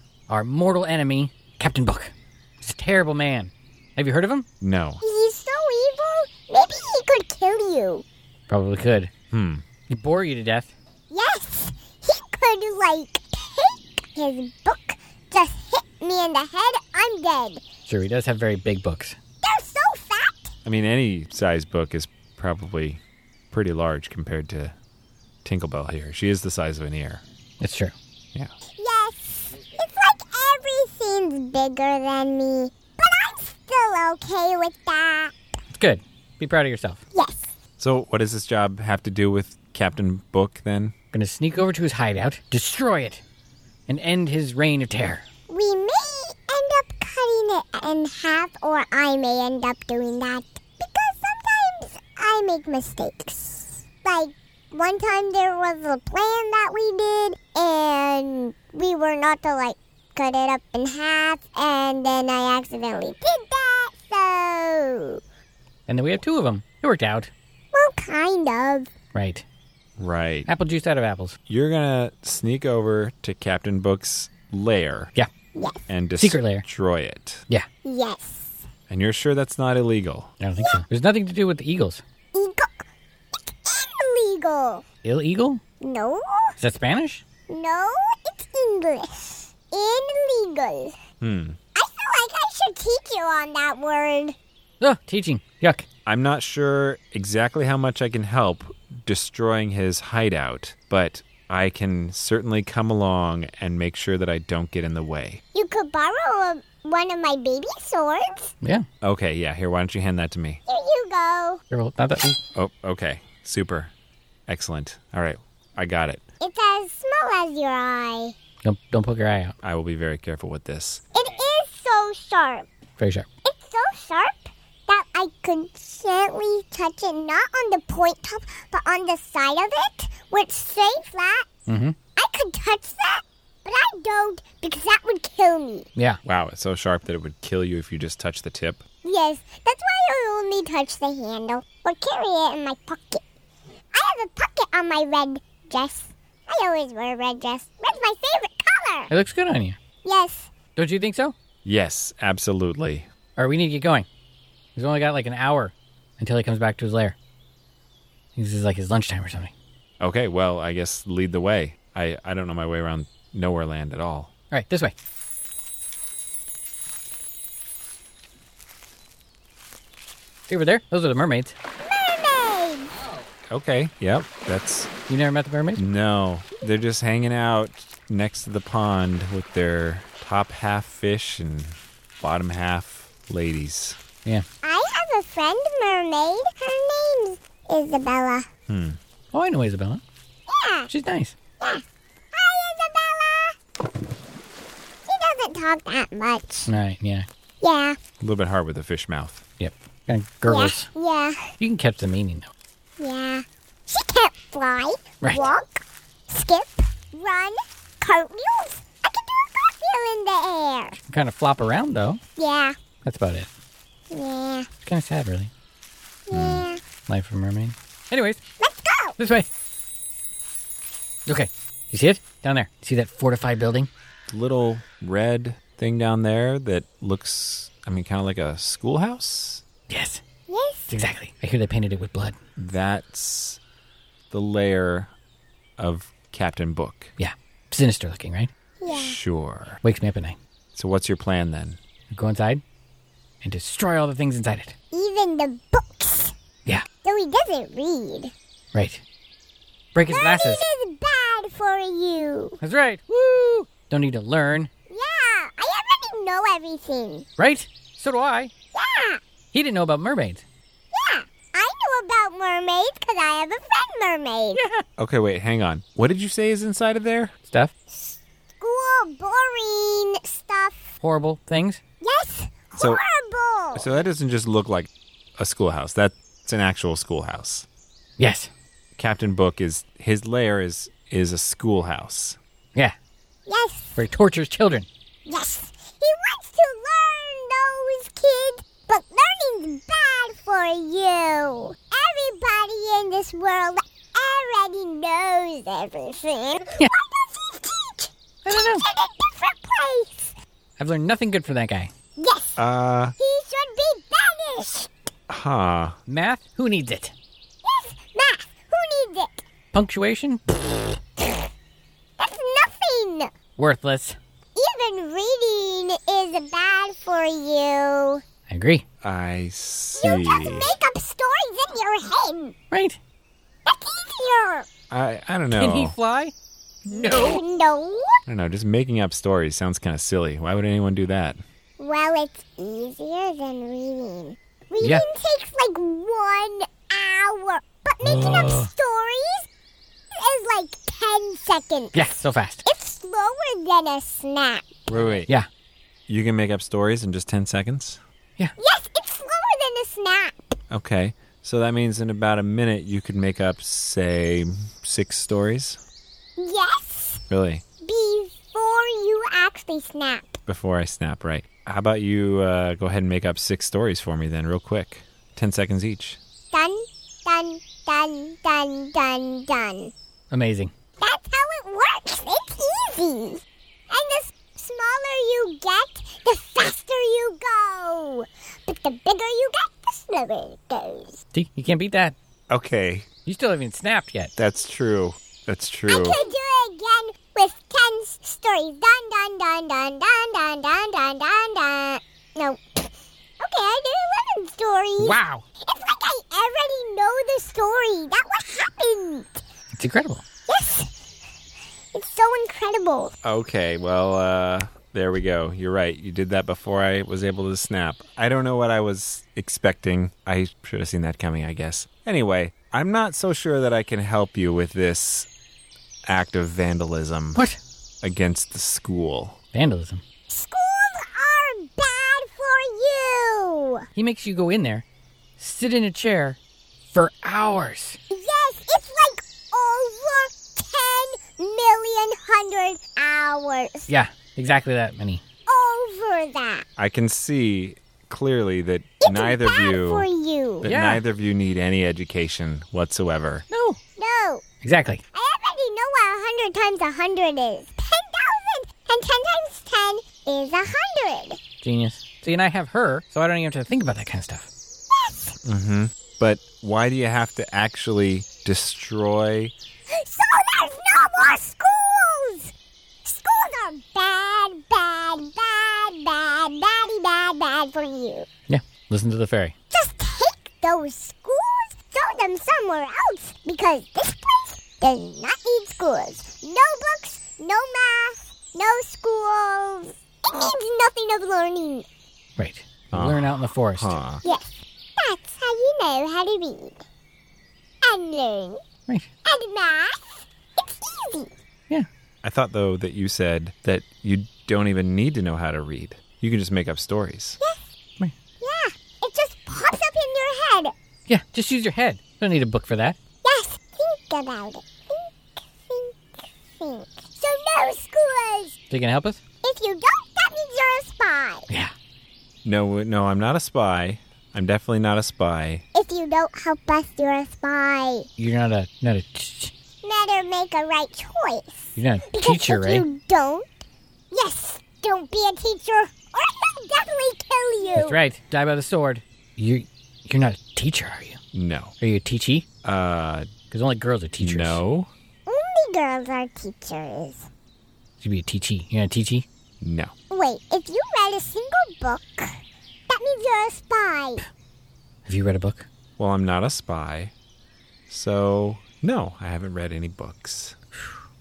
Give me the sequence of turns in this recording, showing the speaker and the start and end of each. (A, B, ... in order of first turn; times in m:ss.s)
0:00.3-0:04.5 A
0:04.6-0:05.0 B
0:05.0-0:08.0 C
0:08.5-0:09.1 A
0:09.3-0:09.6 B
0:09.9-0:10.7 A
0:11.1-0:17.6 C
0:17.9-0:19.2 A
0:19.4-0:20.5 C
0:20.6-0:23.0 B
0:23.5-0:24.8 B
0:25.4-0:27.2 B
0:27.6-0:27.9 A
0:28.8-0:35.3 C
0:35.7-0:37.0 A
0:37.1-0:37.5 C
0:37.8-0:40.9 B
0:41.1-0:43.2 A
0:43.9-0:45.2 A
0:45.5-1:05.2 C
1:05.9-1:07.3 A
1:07.7-1:08.9 C
1:09.1-1:09.4 A
1:10.0-1:10.5 B
1:10.5-1:11.4 A
1:11.5-1:15.1 B
1:15.6-1:15.8 C
1:15.9-1:17.5 B
1:16.2-1:16.6 A
1:17.8-1:18.6 C
1:18.9-1:20.3 B
1:20.4-1:22.0 A
1:22.3-1:22.9 C
1:23.5-1:24.8 C
1:25.0-1:25.6 A
1:25.8-1:26.5 C
1:26.6-1:27.2 A
1:27.5-1:31.0 C
1:31.2-1:31.6 B
1:31.8-1:34.4 C
1:34.8-1:35.8 A
1:36.1-1:45.4 B
1:45.6-1:48.5 C
1:49.0-1:50.6 B
1:50.7-1:51.6 C
1:51.7-1:52.4 A
1:52.6-1:53.9 B
1:54.5-1:56.2 B
1:56.4-1:58.4 C
1:58.6-1:59.6 A
1:59.6-2:01.0 B
2:01.2-2:02.7 C
2:03.0-2:03.3 A
2:03.4-2:11.5 C
2:11.7-2:12.0 A
2:12.2-2:15.9 C
2:16.2-2:18.8 B
2:19.0-2:23.2 C
2:23.9-2:29.1 C
2:29.1-2:29.8 A
2:30.0-2:30.5 C
2:30.8-2:31.3 A
2:31.6-2:33.1 B
2:33.4-2:34.1 A
2:34.8-2:37.2 A
2:38.4-2:39.5 A
2:40.0-2:44.3 B
2:44.5-2:45.0 A
2:50.5-2:51.6 A
2:51.8-2:52.9 C
2:53.5-2:54.9 B
2:55.1-2:55.8 A
2:55.8-3:04.0 B
3:04.6-3:08.5 C
3:08.7-3:09.0 B
3:09.3-3:10.0 A
3:10.5-3:10.9 C
3:10.9-3:11.3 A
3:12.3-3:13.6 C
3:15.1-3:16.7 C
3:16.7-3:17.3 A
3:17.6-3:18.0 C
3:18.2-3:19.4 B
3:19.6-3:20.9 A
3:20.5-3:21.6 C
3:21.6-3:22.5 A
3:23.0-3:31.0 C
3:25.2-3:25.5 A
3:31.1-3:32.2 A
3:32.4-3:32.8 C
3:33.0-3:33.5 A
3:34.1-3:34.7 C
3:34.8-3:35.5 A
3:36.3-3:36.8 C
3:36.3-3:36.7 B
3:37.1-3:38.4 A
3:38.6-3:39.2 C
3:39.2-3:39.5 A
3:41.3-3:43.9 A
3:44.3-3:49.6 B
3:49.9-3:50.2 A
3:50.5-3:50.9 C
3:50.9-3:52.4 A
3:52.6-3:53.6 B
3:54.3-3:55.1 B
3:55.8-3:57.1 B
3:57.2-3:58.5 A
3:58.8-3:59.2 C
3:58.9-3:59.8 B
3:59.8-4:00.4 A
4:00.8-4:01.8 B
4:02.1-4:02.6 A
4:03.4-4:04.8 A
4:04.9-4:06.3 C
4:07.0-4:08.3 C
4:08.7-4:09.0 A
4:09.9-4:10.6 A
4:10.1-4:12.6 C
4:12.6-4:14.7 A
4:14.9-4:17.3 C
4:17.4-4:18.5 A
4:18.7-4:19.2 C
4:19.5-4:20.4 A
4:20.9-4:24.6 C
4:24.6-4:24.8 A
4:25.0-4:27.3 B
4:27.5-4:27.7 A
4:27.9-4:30.9 C
4:31.0-4:31.8 A
4:32.0-4:34.0 C
4:32.8-4:33.0 B
4:33.7-4:37.7 B
4:38.2-4:38.5 A
4:39.0-4:42.4 B
4:43.5-4:44.0 C
4:44.0-4:44.9 A
4:45.3-5:00.3 C
4:58.4-4:58.8 A
5:00.8-5:01.9 A
5:02.2-5:02.6 C
5:02.6-5:03.2 B
5:03.2-5:04.9 C
5:05.3-5:06.0 B
5:06.1-5:07.1 A
5:07.6-5:09.4 C
5:09.7-5:10.4 A
5:12.2-5:13.3 C
5:13.6-5:14.2 A
5:14.6-5:18.2 C
5:18.5-5:18.8 A
5:19.0-5:20.7 B
5:20.0-5:22.6 C
5:22.7-5:23.0 A
5:23.7-5:24.7 C
5:24.9-5:26.0 B
5:25.5-5:26.3 A
5:26.8-5:27.4 A
5:26.9-5:28.2 C
5:28.3-5:31.4 B
5:31.8-5:39.5 C
5:34.8-5:35.1 A
5:38.0-5:38.7 A
5:40.2-5:44.8 C
5:41.9-5:42.6 A
5:44.9-5:45.3 B
5:44.9-5:45.5 A
5:46.1-5:48.0 B
5:48.6-5:50.5 C
5:50.7-5:55.8 B
5:56.4-5:57.2 C
5:57.3-5:57.6 B
5:57.8-6:00.4 C
6:00.5-6:06.2 B
6:06.5-6:09.9 C
6:10.3-6:10.7 A
6:11.0-6:21.2 C
6:21.3-6:22.2 A
6:22.5-6:23.1 B
6:23.3-6:24.3 A
6:24.4-6:26.2 B
6:25.9-6:32.9 C
6:33.4-6:39.4 C
6:35.0-6:35.4 A
6:39.7-6:40.2 A
6:40.5-6:40.9 C
6:41.9-6:43.1 C
6:43.2-6:55.3 B
6:56.1-6:57.4 B
6:58.0-6:59.4 B
6:59.5-7:00.0 A
7:00.3-7:03.9 C
7:04.0-7:04.8 A
7:05.4-7:06.4 A
7:06.9-7:08.0 A
7:08.1-7:13.9 C
7:13.9-7:15.2 A
7:15.5-7:16.7 C
7:16.8-7:20.1 B
7:19.0-7:20.7 C
7:20.6-7:21.0 A
7:20.6-7:23.4 B
7:23.5-7:23.8 A
7:24.0-7:24.4 C
7:24.6-7:25.0 A
7:25.1-7:31.4 C
7:31.6-7:34.5 A
7:34.9-7:35.4 C
7:35.4-7:39.5 B
7:39.9-7:42.5 C
7:43.0-7:48.3 C
7:48.5-7:49.5 A
7:49.7-8:01.8 C
8:02.4-8:04.0 A
8:02.9-8:04.2 B
8:04.2-8:06.8 C
8:07.8-8:08.6 C
8:09.2-8:11.3 C
8:12.2-8:17.4 B
8:18.4-8:20.7 C
8:21.1-8:23.0 A
8:23.2-8:28.6 C
8:28.7-8:29.2 A
8:29.4-8:31.5 C
8:32.4-8:35.6 B
8:35.7-8:38.1 C
8:38.2-8:39.5 A
8:39.8-8:43.5 C
8:41.8-8:42.9 A
8:44.1-8:48.0 C
8:47.8-8:51.2 A
8:51.3-8:51.7 B
8:51.8-8:52.4 A
8:52.6-8:53.3 B
8:53.5-8:54.6 A
8:54.2-8:54.9 B
8:55.3-8:57.3 C
8:58.0-8:59.3 A
8:59.6-8:59.9 B
9:00.1-9:02.4 C
9:02.9-9:04.2 C
9:05.1-9:05.7 A
9:06.0-9:07.1 B
9:07.9-9:10.6 B